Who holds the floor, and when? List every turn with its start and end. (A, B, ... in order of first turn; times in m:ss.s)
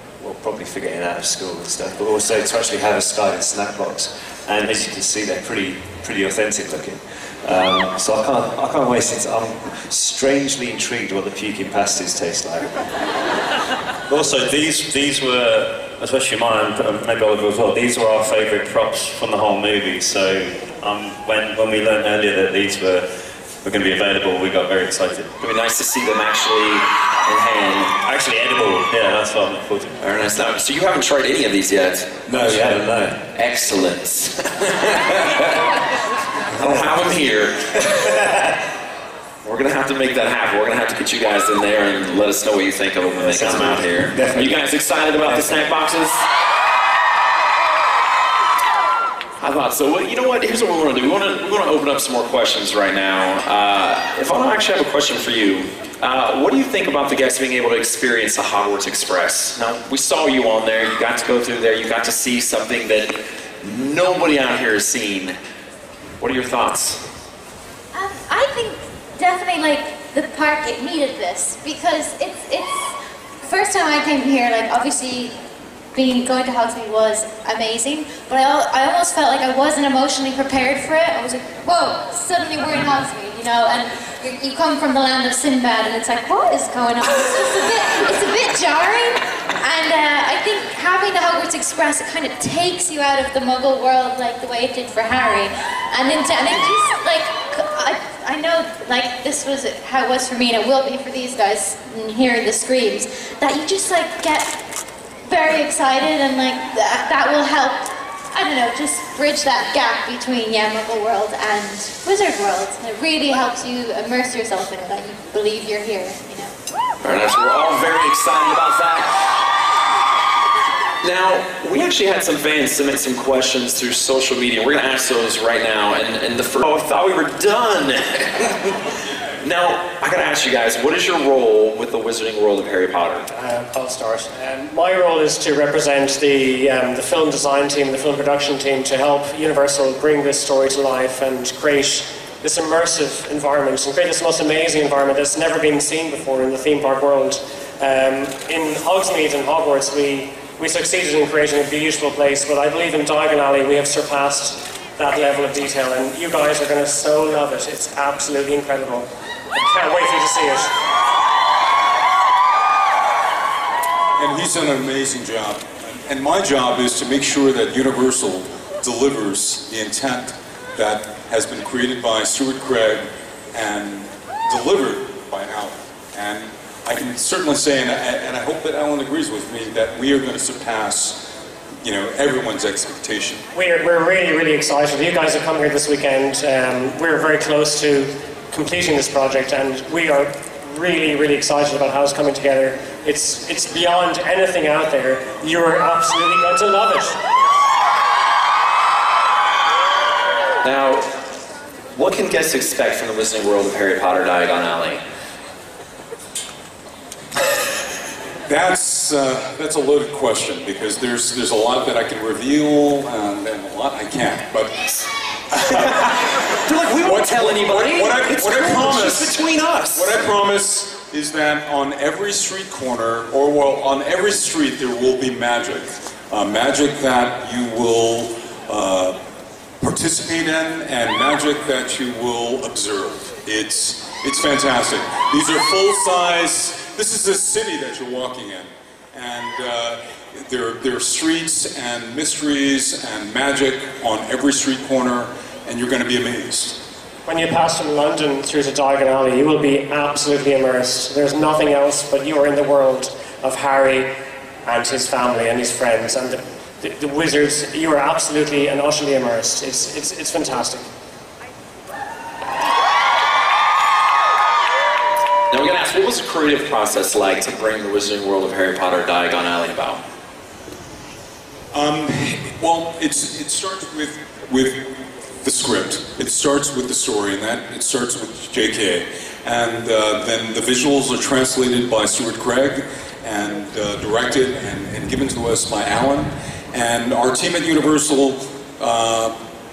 0:00.2-0:12.7 A
0:14.1-0:23.1 B
0:23.6-0:25.3 B
0:25.4-0:27.9 C
0:28.0-0:30.0 B
0:30.0-0:32.7 C
0:32.3-0:33.2 B
0:32.3-0:32.7 A
0:33.4-0:35.6 C
0:36.6-0:37.6 C
0:39.4-0:46.2 C
0:43.3-0:44.5 B
0:43.7-0:44.3 A
0:49.4-1:05.4 C
1:06.2-1:07.0 C
1:07.9-1:15.4 D
1:15.9-1:44.6 D
1:45.3-1:56.5 D
1:57.0-1:59.2 C
2:01.0-2:08.8 C
2:09.4-2:13.3 C
2:13.3-2:40.7 E
2:44.2-3:01.2 F
3:01.8-3:03.4 F
3:03.5-3:17.2 E
3:20.6-3:21.1 C
3:21.9-3:25.0 C
3:28.5-3:35.0 F
3:35.6-3:36.2 F
3:35.7-3:36.1 C
3:36.6-3:40.2 C
3:37.0-3:39.4 F
3:39.9-3:49.2 F
3:49.8-4:06.8 F
4:07.3-4:14.1 E
4:14.6-4:20.9 E
4:25.5-4:30.0 C
4:31.7-4:49.4 F